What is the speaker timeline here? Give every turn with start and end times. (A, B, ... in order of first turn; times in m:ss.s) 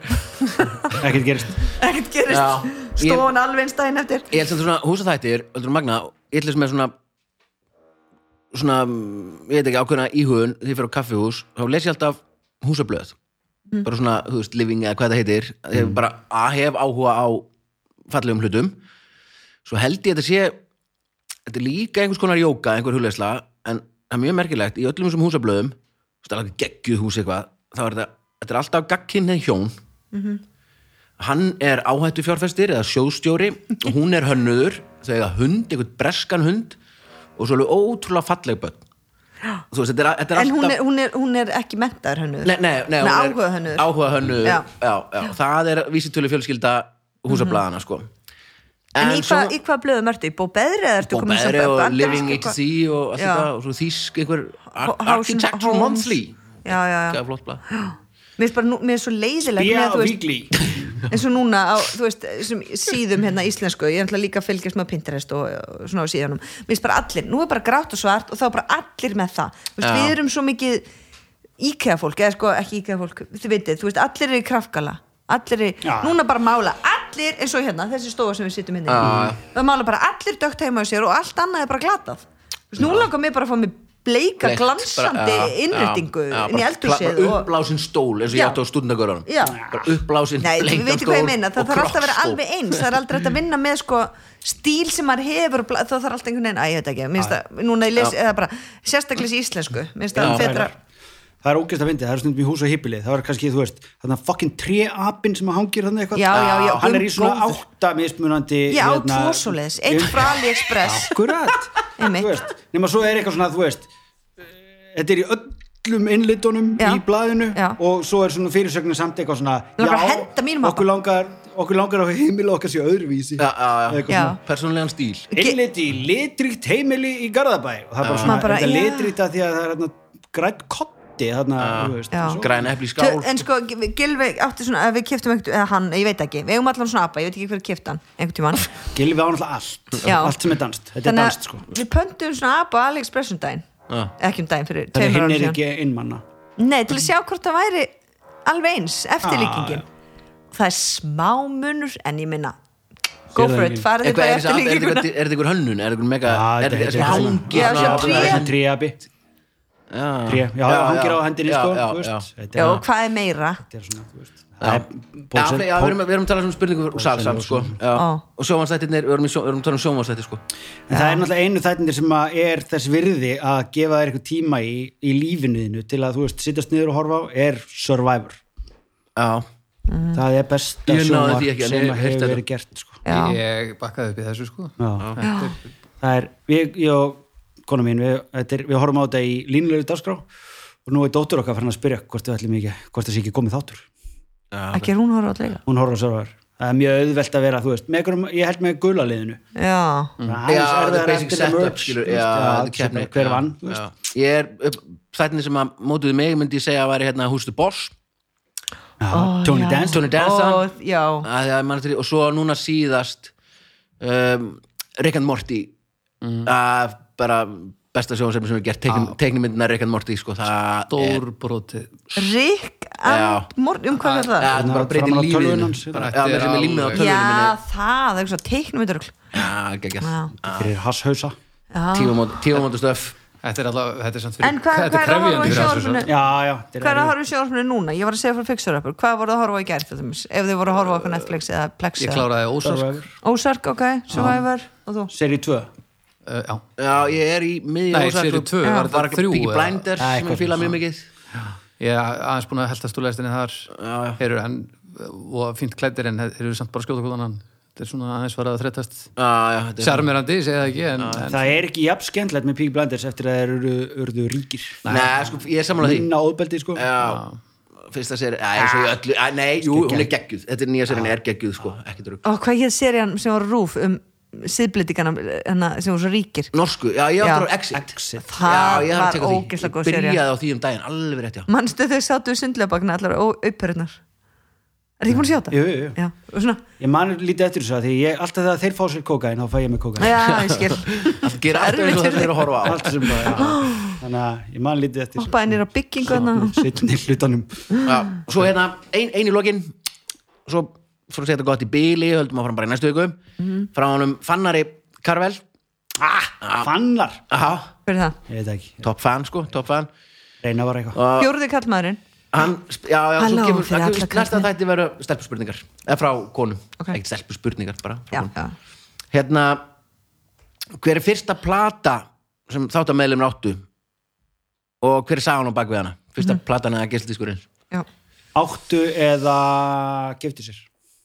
0:00.3-0:00.9 A
0:00.9-0:01.6 B
0:01.7-0:04.3 A
0:02.3-0:03.3 C
0:04.3-0:06.9 C
0:08.5-0:13.1 C
0:13.8-0:17.5 C
0:18.1-0:18.8 C
0:19.6-0:20.6 C
0:21.5-0:29.7 C
0:30.1-0:30.4 A
0:31.2-0:36.8 C
0:37.4-0:38.8 C
0:39.7-0:40.8 C
0:40.4-0:43.9 A
0:42.4-0:48.1 C
0:47.3-0:47.6 A
0:48.9-0:49.6 C
0:49.0-0:52.6 A
0:51.0-0:57.6 C
0:53.2-0:53.5 A
0:54.8-1:00.2 A
0:59.5-1:00.8 B
1:01.0-1:10.9 A
1:09.8-1:10.2 C
1:11.6-1:27.5 A
1:15.8-1:16.2 B
1:18.9-1:19.4 C
1:19.0-1:19.3 B
1:22.8-1:23.1 C
1:24.4-1:32.9 C
1:28.3-1:28.6 A
1:29.2-1:29.6 A
1:29.4-1:29.8 B
1:30.4-1:40.7 A
1:40.1-1:40.8 B
1:40.2-1:40.6 C
1:41.4-1:53.9 B
1:46.1-1:47.6 A
1:46.3-1:46.9 C
1:48.7-1:51.3 A
1:52.0-1:52.3 A
1:54.9-2:04.4 B
1:59.8-2:00.8 A
2:03.4-2:05.3 C
2:04.1-2:04.4 A
2:05.3-2:05.6 A
2:05.3-2:12.6 B
2:08.0-2:08.4 C
2:08.2-2:09.1 A
2:11.6-2:13.4 C
2:12.1-2:12.4 A
2:13.0-2:18.8 A
2:18.9-2:21.7 B
2:20.0-2:20.4 A
2:21.0-2:23.7 A
2:24.2-2:25.6 A
2:24.9-2:26.2 B
2:26.6-2:27.9 A
2:28.4-2:29.8 A
2:29.2-2:29.8 B
2:30.5-2:32.6 A
2:33.3-2:35.1 A
2:33.3-2:33.8 B
2:34.0-2:38.6 C
2:36.2-2:39.0 B
2:37.0-2:38.5 A
2:39.9-2:42.8 C
2:40.3-2:42.8 B
2:42.5-2:43.6 A
2:43.6-2:46.0 B
2:44.6-2:50.4 C
2:46.9-2:47.8 B
2:47.9-2:48.2 A
2:50.9-2:58.4 B
2:50.9-2:51.2 A
2:59.2-2:59.4 C
2:59.9-3:00.2 A
3:00.1-3:03.0 B
3:00.8-3:02.4 C
3:03.0-3:03.4 A
3:03.1-3:05.5 D
3:04.8-3:05.1 B
3:05.2-3:05.5 A
3:06.0-3:10.2 B
3:10.8-3:13.8 B
3:14.5-3:14.9 C
3:14.7-3:15.6 A
3:15.6-3:19.4 B
3:19.5-3:20.1 A
3:20.2-3:23.8 B
3:20.5-3:27.9 C
3:29.0-3:30.0 B
3:29.1-3:31.3 A
3:29.9-3:30.7 C
3:31.2-3:33.3 C
3:34.0-3:35.7 C
3:36.2-3:36.5 D
3:36.4-3:41.2 C
3:38.9-3:39.1 D
3:40.9-3:42.0 D
3:42.1-3:44.6 A
3:43.0-3:43.5 C
3:44.0-3:47.5 C
3:44.5-3:46.1 B
3:45.9-3:47.1 D
3:46.9-3:49.2 A
3:49.3-3:50.7 C
3:50.0-3:50.3 A
3:50.5-3:51.4 B
3:51.7-3:52.3 A
3:51.9-3:53.1 C
3:53.4-3:56.1 D
3:54.4-3:56.1 A
3:56.0-3:57.1 B
3:56.8-4:02.3 A
4:02.0-4:03.1 D
4:02.6-4:03.0 B
4:03.2-4:05.1 A
4:04.1-4:04.4 B
4:05.1-4:05.7 B
4:06.2-4:06.6 D
4:06.8-4:11.0 C
4:07.9-4:09.8 D
4:08.6-4:08.9 A
4:10.0-4:10.7 B
4:11.3-4:19.1 D
4:13.7-4:14.2 C
4:19.2-4:20.1 C
4:19.8-4:21.5 D
4:21.0-4:21.2 C
4:21.3-4:24.8 B
4:24.8-4:25.1 D
4:24.9-4:26.1 C
4:25.8-4:26.8 B
4:26.8-4:27.2 C
4:27.0-4:27.4 D
4:27.9-4:32.2 C
4:28.6-4:29.0 B
4:29.6-4:30.1 B
4:32.2-4:36.5 A
4:36.5-4:37.8 C
4:37.2-4:37.5 A
4:37.7-4:38.3 B
4:38.2-4:40.2 A
4:38.4-4:41.5 C
4:41.5-4:44.0 A
4:45.0-4:46.6 A
4:45.5-4:46.0 B
4:46.8-4:50.2 B
4:50.0-4:52.5 A
4:50.2-4:53.3 C
4:52.6-4:57.6 B
4:53.3-4:54.0 A
4:55.2-4:56.7 A
4:57.8-4:59.7 C
5:00.4-5:03.2 C
5:03.4-5:03.7 A
5:03.7-5:05.4 C
5:06.0-5:07.2 B
5:06.4-5:06.7 C
5:07.3-5:07.7 C
5:07.8-5:08.2 A
5:08.3-5:08.8 B
5:08.8-5:09.9 C
5:10.4-5:11.0 B
5:10.9-5:11.3 C
5:11.2-5:12.0 A
5:12.3-5:18.3 C
5:13.2-5:14.5 A
5:18.1-5:18.5 A
5:19.1-5:19.6 C
5:20.8-5:23.6 C
5:24.8-5:27.4 C
5:28.3-5:30.6 B